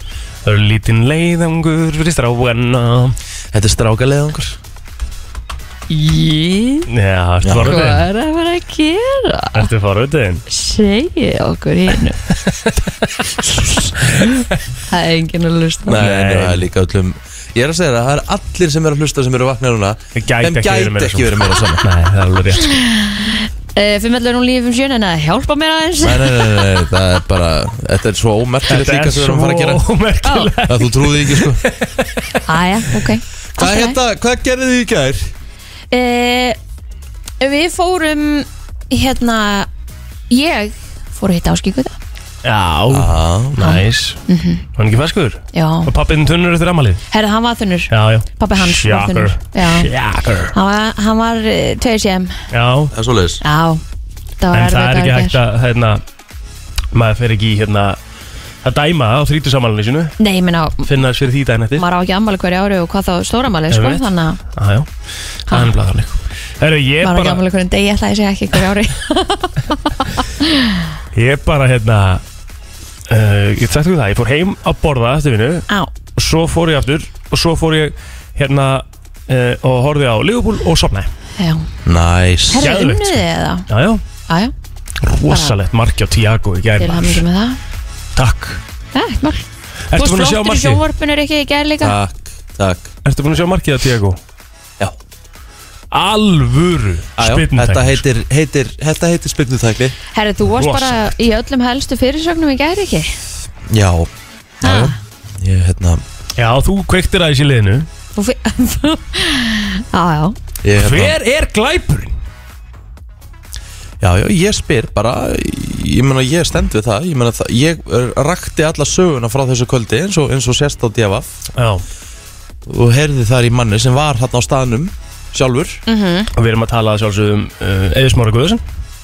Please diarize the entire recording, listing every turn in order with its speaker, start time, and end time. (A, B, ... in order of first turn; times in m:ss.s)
0:00.4-0:03.2 A
0:03.5-0:04.6 B
0:05.9-0:06.9 C
0:06.9-0:08.0 A
0:07.4-0:07.8 B
0:07.6-0:09.7 C
0:09.6-0:10.4 A
0:10.5-0:12.2 C
0:13.5-0:14.3 C
0:14.1-0:14.4 A
0:14.9-0:16.0 C
0:15.9-0:21.9 B
0:16.0-0:16.6 A
0:20.2-0:22.7 A
0:22.7-0:26.7 C
0:26.0-0:29.8 B
0:28.7-0:32.4 A
0:30.2-0:30.5 C
0:30.7-0:31.6 B
0:32.5-0:34.0 C
0:33.6-0:35.3 B
0:35.9-0:36.6 C
0:37.4-0:39.7 C
0:40.3-0:42.0 C
0:42.4-0:44.2 A
0:42.9-0:43.6 B
0:43.6-0:44.6 C
0:44.8-0:47.0 A
0:45.5-0:45.9 C
0:47.1-0:49.9 C
0:47.9-0:50.5 A
0:50.5-0:52.4 C
0:52.5-0:52.9 A
0:52.9-0:53.4 B
0:53.4-0:53.8 C
0:54.4-0:55.4 C
0:54.5-0:56.0 A
0:56.9-0:58.0 A
0:58.6-1:00.2 A
1:00.2-1:00.9 C
1:00.8-1:01.8 A
1:01.8-1:04.4 C
1:03.7-1:04.9 A
1:05.5-1:07.4 A
1:07.0-1:10.8 C
1:11.1-1:12.2 A
1:13.1-1:15.6 A
1:16.2-1:21.1 A
1:21.4-1:21.7 C
1:21.9-1:22.7 B
1:22.5-1:23.7 C
1:22.6-1:24.0 A
1:24.3-1:24.5 C
1:25.0-1:27.2 A
1:26.8-1:27.6 C
1:28.2-1:28.6 A
1:28.9-1:32.0 C
1:29.9-1:30.8 A
1:31.8-1:32.9 B
1:33.0-1:34.2 A
1:35.9-1:38.0 A
1:37.2-1:40.0 B
1:40.1-1:43.2 C
1:40.6-1:41.2 A
1:43.7-1:44.1 B
1:44.6-1:46.0 B
1:44.6-1:45.0 C
1:46.4-1:47.9 A
1:48.2-1:50.4 C
1:50.6-1:51.2 B
1:50.8-1:52.1 A
1:54.0-2:01.3 B
2:01.6-2:01.8 A
2:02.7-2:05.8 B
2:05.9-2:06.3 C
2:06.4-2:08.6 A